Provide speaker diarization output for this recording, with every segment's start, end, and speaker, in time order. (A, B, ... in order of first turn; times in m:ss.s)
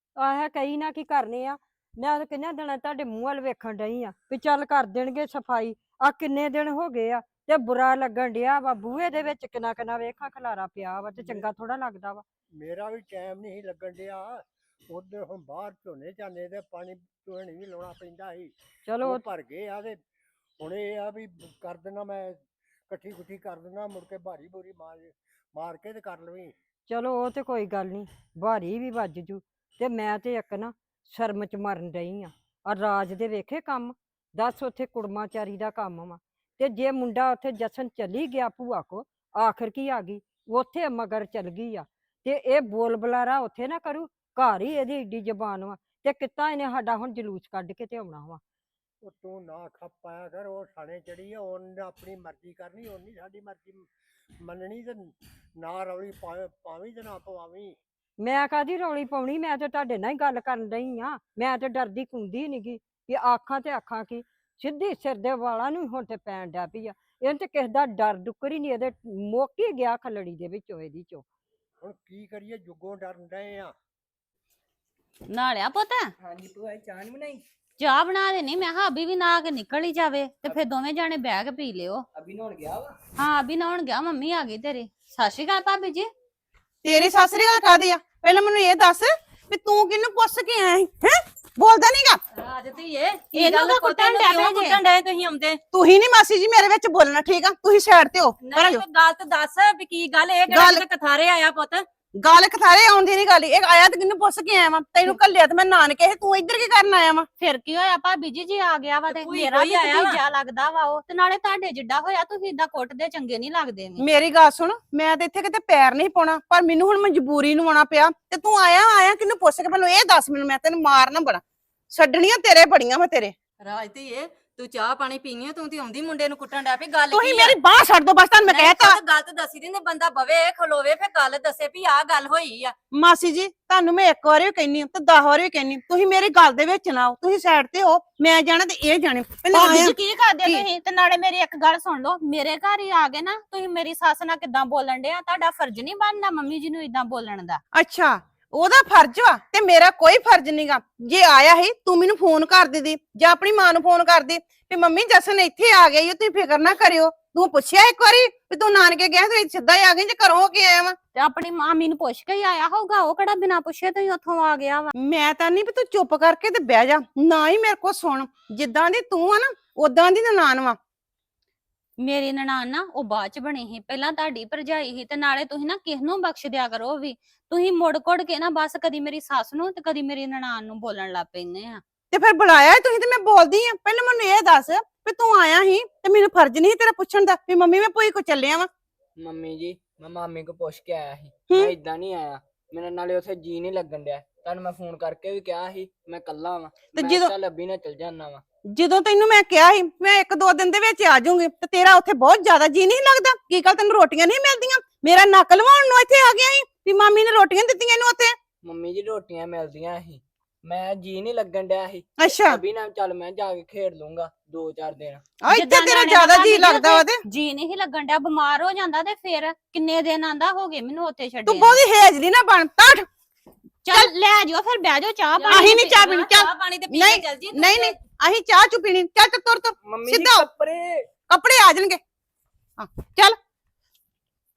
0:00.2-0:12.2 A
0:11.2-0:11.5 B
0:12.5-0:20.0 B
0:18.8-0:19.2 A
0:20.6-0:26.5 B
0:26.9-0:48.4 A
0:49.0-0:53.9 B
0:54.4-0:57.8 B
0:58.2-1:11.2 A
1:11.8-1:13.7 B
1:15.3-1:16.1 C
1:16.2-1:17.4 D
1:17.8-1:22.0 C
1:22.1-1:23.0 D
1:23.2-1:26.1 C
1:26.8-1:32.2 E
1:26.9-1:27.8 C
1:32.4-1:35.6 F
1:33.4-1:34.8 C
1:33.6-1:33.9 E
1:35.7-1:38.8 E
1:38.4-1:41.9 F
1:40.5-1:40.8 E
1:42.1-1:47.3 E
1:47.4-1:54.0 C
1:49.1-1:50.2 F
1:54.0-2:03.3 E
2:03.6-2:07.6 F
2:07.1-2:09.0 E
2:08.4-2:12.7 F
2:12.9-2:20.6 E
2:19.5-2:27.6 C
2:27.7-2:41.0 E
2:41.1-2:44.9 C
2:45.0-2:50.8 E
2:52.0-3:01.8 C
3:02.1-3:08.7 E
3:09.2-3:18.4 D
3:11.5-3:11.8 E
3:16.9-3:17.3 E
3:18.6-3:28.4 E
3:28.6-3:35.2 D
3:32.2-3:32.6 E
3:35.4-3:37.2 E
3:35.5-3:41.8 C
3:41.4-3:43.1 E
3:43.8-3:46.4 C
3:45.4-3:45.6 F
3:45.4-3:50.5 E
3:46.2-3:47.9 F
3:49.8-3:51.1 D
3:51.3-3:52.0 E
3:52.8-3:53.4 E